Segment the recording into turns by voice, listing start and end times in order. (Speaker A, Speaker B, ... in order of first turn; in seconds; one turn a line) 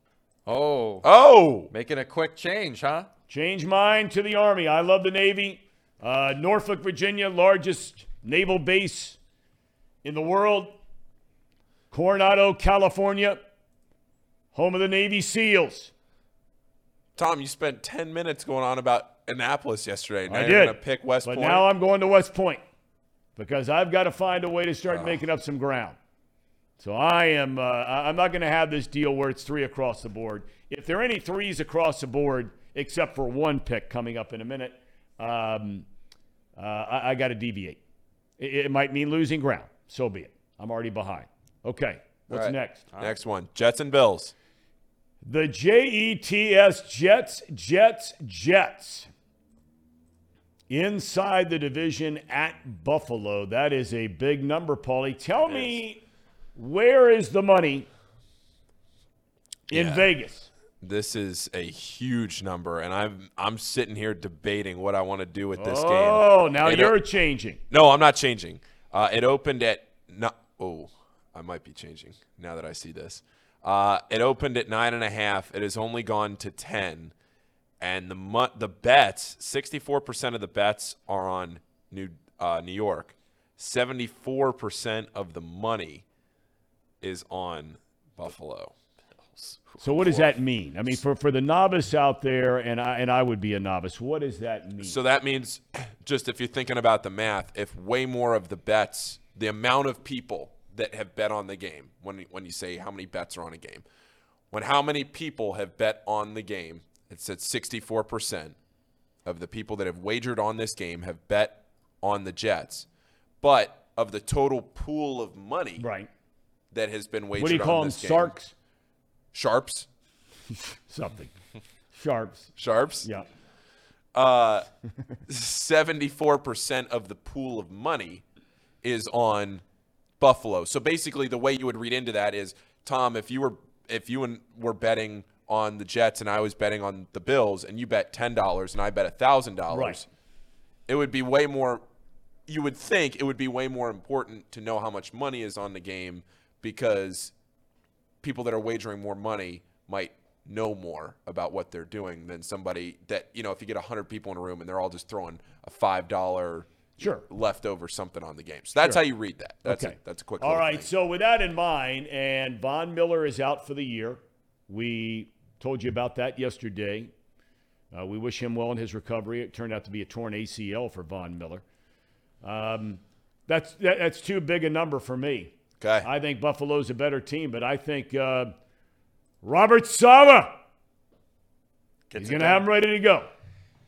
Speaker A: 0.5-1.1
Speaker B: 1.0-1.7
Speaker A: 1.7-3.1
Speaker C: 3.3-9.2
Speaker C: 10.0-10.8
Speaker C: 11.9-13.5
Speaker C: 14.5-15.9
Speaker B: 17.2-21.7
Speaker C: 20.3-22.6
Speaker C: 23.4-26.0
Speaker B: 24.9-25.2
Speaker C: 26.8-35.9
Speaker C: 36.6-37.8
Speaker C: 38.4-42.9
Speaker B: 42.3-44.3
Speaker C: 45.2-49.1
Speaker C: 50.7-56.0
Speaker B: 55.5-55.8
Speaker C: 56.6-57.9
Speaker C: 59.7-60.5
Speaker B: 59.7-60.1
Speaker B: 60.8-67.0
Speaker C: 65.6-67.6
Speaker B: 67.7-77.1
Speaker B: 77.8-86.0
Speaker B: 87.0-88.7
Speaker A: 89.3-89.6
Speaker C: 89.8-95.0
Speaker B: 89.9-90.3
Speaker B: 94.8-103.8
Speaker B: 104.5-108.6
Speaker B: 109.2-112.9
Speaker B: 113.4-115.9
Speaker C: 115.8-116.1
Speaker B: 116.7-118.4
Speaker C: 117.4-118.5
Speaker B: 119.3-119.9
Speaker C: 120.9-121.3
Speaker C: 121.9-122.5
Speaker B: 122.6-123.1
Speaker B: 124.1-124.7
Speaker B: 125.3-128.2
Speaker B: 128.8-129.6
Speaker B: 130.2-140.1
Speaker C: 139.7-140.0
Speaker B: 140.9-141.8
Speaker B: 142.5-147.3
Speaker B: 148.2-160.9
Speaker C: 157.0-157.3
Speaker C: 159.6-167.1
Speaker C: 167.9-171.6
Speaker C: 172.4-178.6
Speaker B: 175.8-176.1
Speaker C: 179.4-180.6
Speaker A: 182.1-182.7
Speaker C: 182.2-183.3